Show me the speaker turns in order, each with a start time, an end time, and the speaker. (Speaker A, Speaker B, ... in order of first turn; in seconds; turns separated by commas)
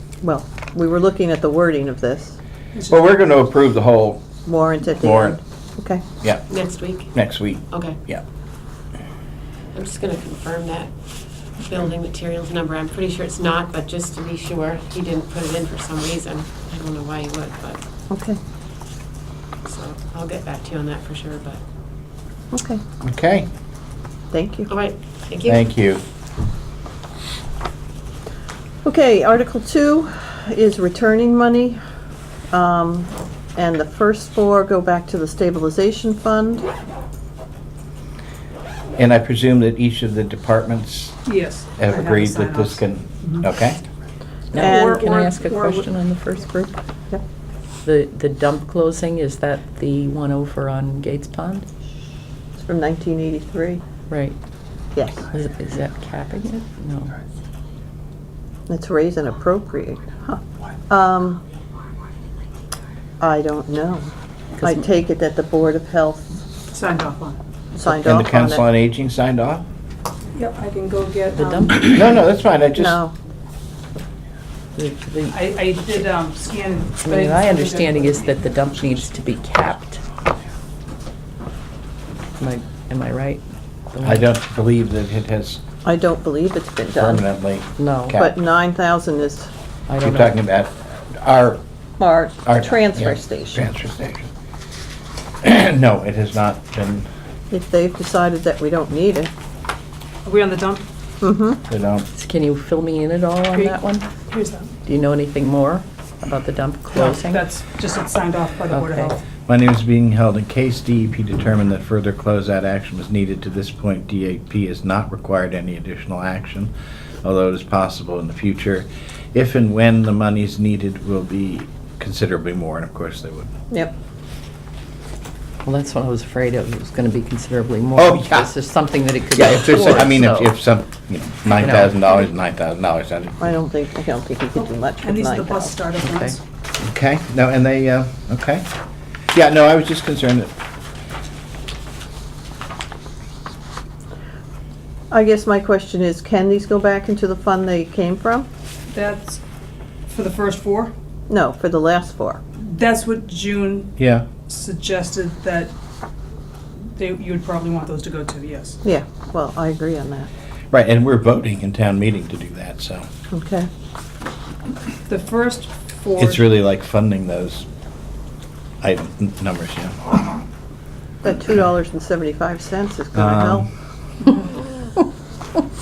Speaker A: 0.2-2.4, Speaker B: 2.7-3.2, Speaker C: 2.9-4.3, Speaker A: 4.5-6.0, Speaker C: 5.0-5.4, Speaker C: 6.2-8.2, Speaker D: 6.5-7.1, Speaker D: 7.7-8.0, Speaker D: 9.7-10.9, Speaker D: 11.6-17.8, Speaker A: 18.1-18.4, Speaker D: 19.6-21.6, Speaker A: 22.5-22.8, Speaker C: 23.0-23.5, Speaker A: 24.3-24.7, Speaker D: 24.7-25.7, Speaker C: 25.4-26.0, Speaker A: 28.8-31.8, Speaker A: 32.5-36.6, Speaker C: 39.0-41.2, Speaker B: 41.2-43.4, Speaker C: 41.8-43.8, Speaker E: 44.5-46.8, Speaker A: 44.6-45.1, Speaker B: 44.6-45.8, Speaker E: 47.8-51.6, Speaker A: 52.6-53.8, Speaker E: 54.1-54.4, Speaker A: 54.9-55.3, Speaker E: 55.3-57.2, Speaker A: 58.7-61.4, Speaker A: 63.2-66.3, Speaker B: 66.7-67.4, Speaker A: 67.7-68.6, Speaker C: 67.8-69.6, Speaker B: 70.3-72.1, Speaker E: 71.3-72.2, Speaker C: 71.8-73.0, Speaker A: 72.7-73.1, Speaker E: 74.8-76.1, Speaker B: 75.3-78.4, Speaker E: 77.0-80.0, Speaker E: 82.4-84.3, Speaker C: 84.0-85.6, Speaker A: 85.8-87.2, Speaker C: 87.0-88.3, Speaker E: 87.8-88.2, Speaker A: 88.2-89.5, Speaker E: 89.9-90.3, Speaker C: 90.0-91.6, Speaker A: 92.0-93.7, Speaker C: 92.4-94.3, Speaker C: 95.4-97.1, Speaker A: 97.5-99.3, Speaker B: 100.2-100.8, Speaker A: 101.2-101.6, Speaker C: 101.7-102.1, Speaker E: 102.1-104.1, Speaker B: 104.3-104.7, Speaker E: 104.8-107.5, Speaker B: 106.9-109.2, Speaker E: 108.7-109.1, Speaker C: 109.5-116.7, Speaker C: 117.2-123.5, Speaker E: 125.7-130.5, Speaker C: 128.0-128.5, Speaker C: 129.3-133.4, Speaker E: 131.6-132.1, Speaker A: 133.4-135.8, Speaker B: 134.5-136.4, Speaker E: 136.0-136.4, Speaker C: 136.8-138.7, Speaker C: 139.3-140.5, Speaker A: 145.1-148.5, Speaker B: 148.9-149.4, Speaker B: 150.1-150.9, Speaker A: 151.3-152.4, Speaker B: 152.6-153.9, Speaker C: 154.0-154.2, Speaker B: 154.5-155.7, Speaker B: 156.9-158.8, Speaker A: 158.8-160.3, Speaker C: 160.7-163.0, Speaker A: 163.3-163.7, Speaker B: 165.1-166.4, Speaker C: 166.2-167.6, Speaker C: 168.8-170.2, Speaker A: 171.2-173.7, Speaker C: 173.1-173.7